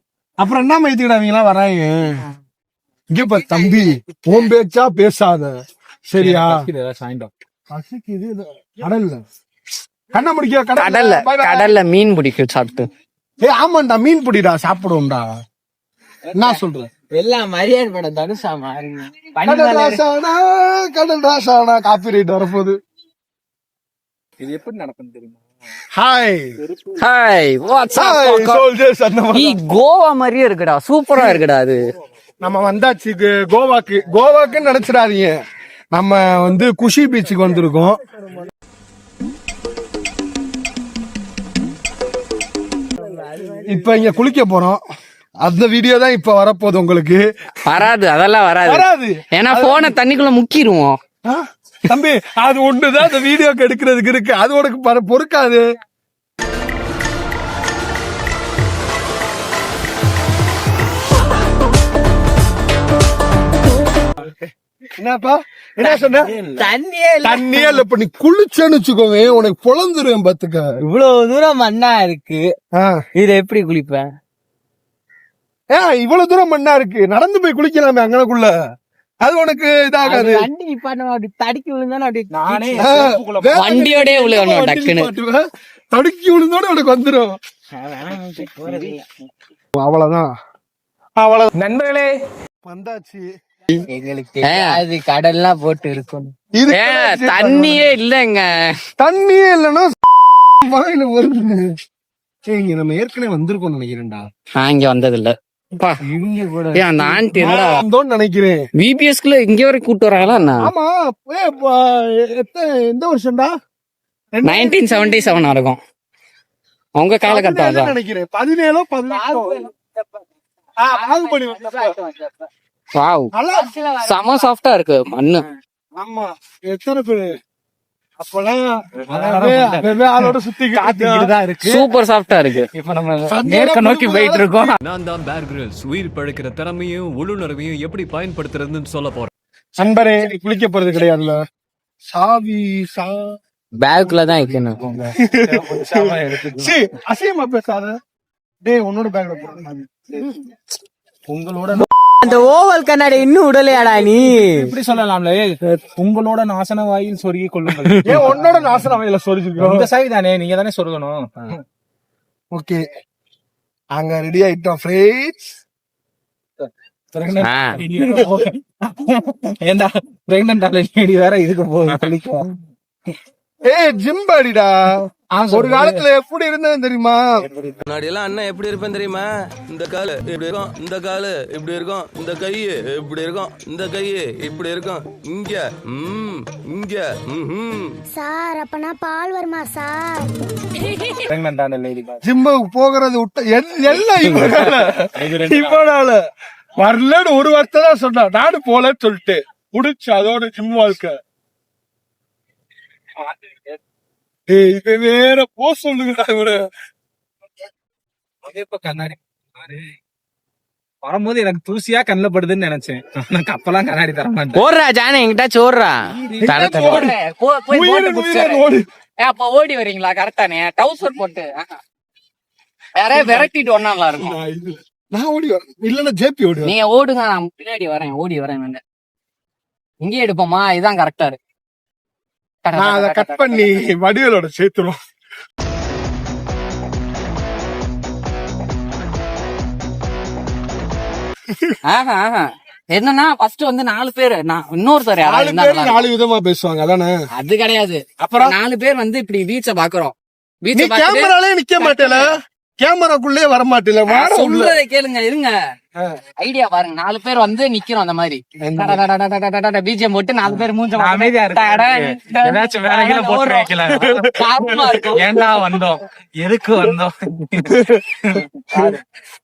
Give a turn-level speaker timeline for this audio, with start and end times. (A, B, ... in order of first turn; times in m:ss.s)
0:00.4-0:02.2 A
0:03.1-0:05.6 A
0:06.1-0:06.6 A
0:06.2-0:07.3 B
0:07.7-0:09.2 A
0:10.1-0:11.7 A
0:10.8-0:12.9 C
0:13.4-0:15.3 A
0:16.3-0:16.9 A
0:17.1-0:20.0 D
0:19.4-0:22.8 A
0:24.4-0:25.4 B
0:25.9-0:26.5 A
0:26.7-0:27.0 B
0:27.0-0:28.6 C
0:27.9-0:29.6 A
0:29.3-0:31.8 C
0:31.1-0:31.4 A
0:32.4-0:35.3 A
0:35.9-0:38.0 A
0:43.5-0:44.8 A
0:45.4-0:47.2 A
0:47.7-0:51.0 C
0:48.6-0:49.9 A
0:51.2-0:55.6 A
1:05.0-1:06.3 A
1:05.8-1:07.8 D
1:07.2-1:10.7 A
1:10.8-1:12.5 D
1:12.7-1:13.0 A
1:13.2-1:14.1 D
1:15.7-1:18.5 A
1:19.2-1:20.5 A
1:20.0-1:22.9 D
1:22.3-1:23.6 B
1:22.8-1:27.4 A
1:23.6-1:25.1 C
1:27.8-1:29.0 D
1:28.6-1:28.9 B
1:29.7-1:30.3 A
1:31.2-1:31.4 A
1:31.5-1:32.1 B
1:32.6-1:33.2 A
1:33.9-1:36.3 D
1:34.4-1:34.8 C
1:36.6-1:37.9 A
1:36.7-1:38.5 C
1:39.0-1:41.7 A
1:42.5-1:44.2 A
1:44.6-1:46.0 C
1:46.0-1:48.6 A
1:46.8-1:47.8 C
1:48.8-1:50.7 C
1:50.6-1:53.5 A
1:54.3-1:55.3 A
1:54.4-1:55.8 C
1:57.0-1:57.9 C
1:57.2-1:59.7 A
2:00.8-2:02.0 A
2:02.9-2:03.3 C
2:03.3-2:04.4 A
2:04.0-2:05.4 C
2:06.0-2:07.3 A
2:08.2-2:11.3 A
2:09.1-2:09.9 B
2:10.7-2:11.8 B
2:11.6-2:12.7 C
2:12.8-2:13.1 B
2:13.3-2:14.8 A
2:13.7-2:14.7 D
2:14.8-2:19.3 E
2:19.8-2:21.4 A
2:22.1-2:23.4 A
2:23.8-2:24.9 D
2:24.9-2:26.7 B
2:25.2-2:28.0 A
2:28.6-2:30.3 A
2:31.3-2:31.8 B
2:32.2-2:34.7 D
2:34.2-2:38.8 B
2:38.0-2:39.8 A
2:39.6-2:41.6 B
2:42.5-2:42.8 A
2:43.9-2:45.4 A
2:46.6-2:52.5 B
2:47.4-2:47.8 C
2:53.6-2:57.2 A
2:55.3-2:56.0 B
2:57.5-2:57.8 B
2:57.9-3:08.0 F
3:08.1-3:10.3 G
3:11.0-3:12.2 B
3:12.2-3:16.2 A
3:14.2-3:15.8 B
3:16.8-3:21.1 A
3:24.5-3:26.6 A
3:28.4-3:30.0 B
3:31.0-3:34.6 B
3:34.5-3:37.0 D
3:36.2-3:37.0 B
3:36.4-3:37.1 A
3:36.6-3:38.6 C
3:37.7-3:38.8 A
3:39.2-3:41.8 C
3:43.0-3:44.4 C
3:43.1-3:43.5 A
3:44.1-3:46.7 A
3:46.6-3:48.8 C
3:50.0-3:51.4 C
3:52.6-3:53.7 C
3:52.7-3:55.0 A
4:01.9-4:06.0 C
4:05.2-4:07.2 A
4:07.3-4:12.2 C
4:10.7-4:12.3 A
4:12.8-4:14.8 A
4:14.1-4:15.5 C
4:16.4-4:25.3 C
4:18.6-4:19.0 A
4:20.9-4:29.0 B